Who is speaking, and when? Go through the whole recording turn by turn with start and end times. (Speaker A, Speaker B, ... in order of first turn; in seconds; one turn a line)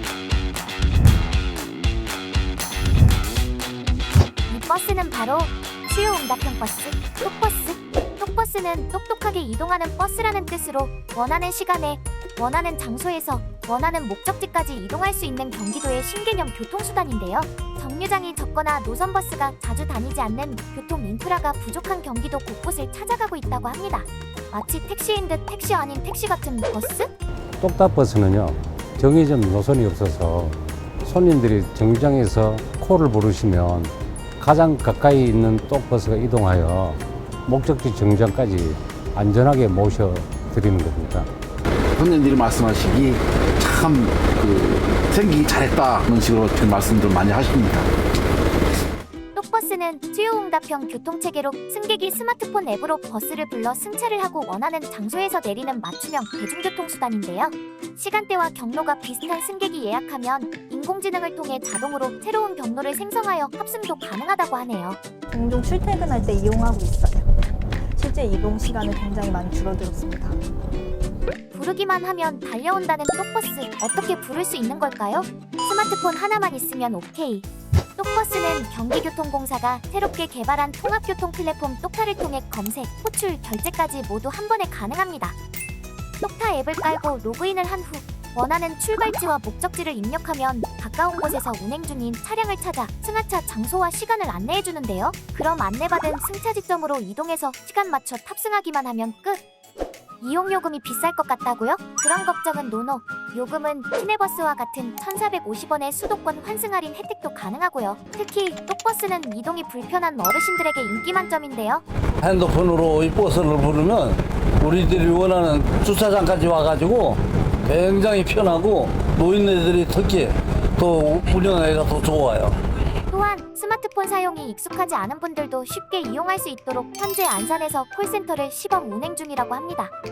Speaker A: 4.5-27.1
Speaker B: 27.6-41.3
Speaker C: 42.0-47.9
Speaker A: 49.3-65.0
Speaker D: 65.3-67.3
Speaker D: 67.9-70.4
Speaker A: 71.5-77.5
Speaker A: 78.0-85.3
Speaker A: 86.2-99.4
Speaker A: 100.2-111.8
Speaker E: 112.2-122.6
Speaker A: 123.1-129.9